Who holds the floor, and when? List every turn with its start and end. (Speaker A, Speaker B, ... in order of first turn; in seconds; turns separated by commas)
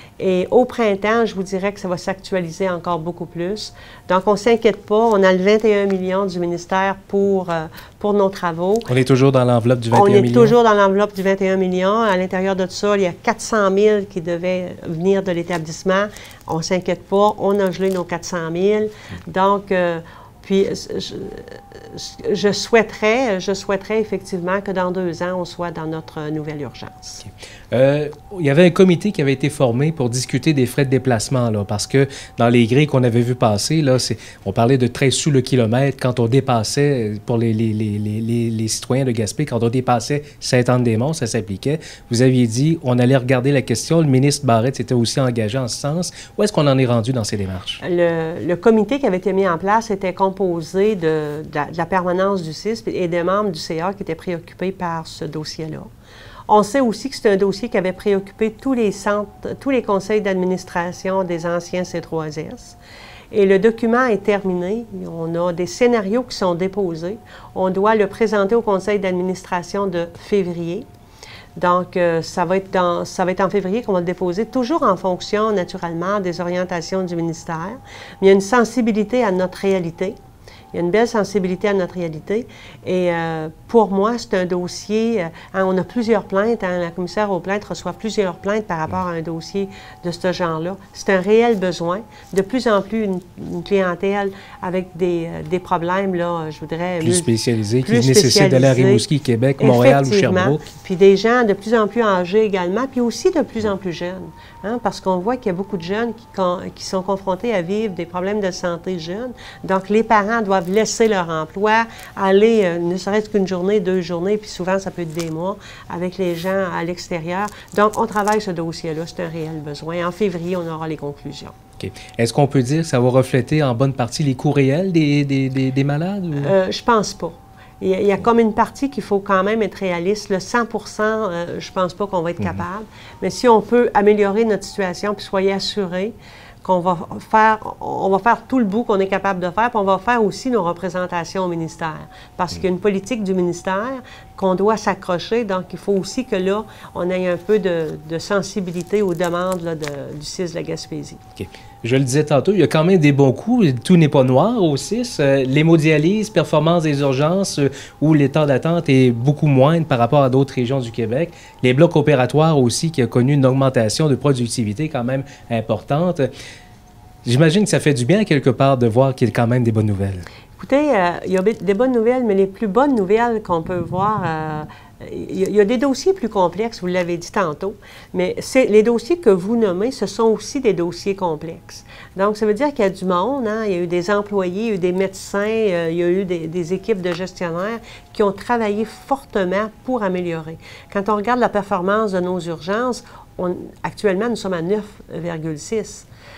Speaker A: 0.2-8.9, Speaker B: 8.9-10.5, Speaker A: 9.9-27.2, Speaker B: 27.7-47.8, Speaker A: 47.8-55.9, Speaker A: 56.5-62.8, Speaker A: 63.3-70.8, Speaker A: 71.5-80.2, Speaker A: 80.7-97.3, Speaker B: 97.0-100.7, Speaker A: 97.8-99.0, Speaker A: 99.6-121.5, Speaker B: 121.8-126.5, Speaker A: 126.4-151.2, Speaker B: 151.4-166.3, Speaker B: 167.2-170.2, Speaker A: 170.6-196.1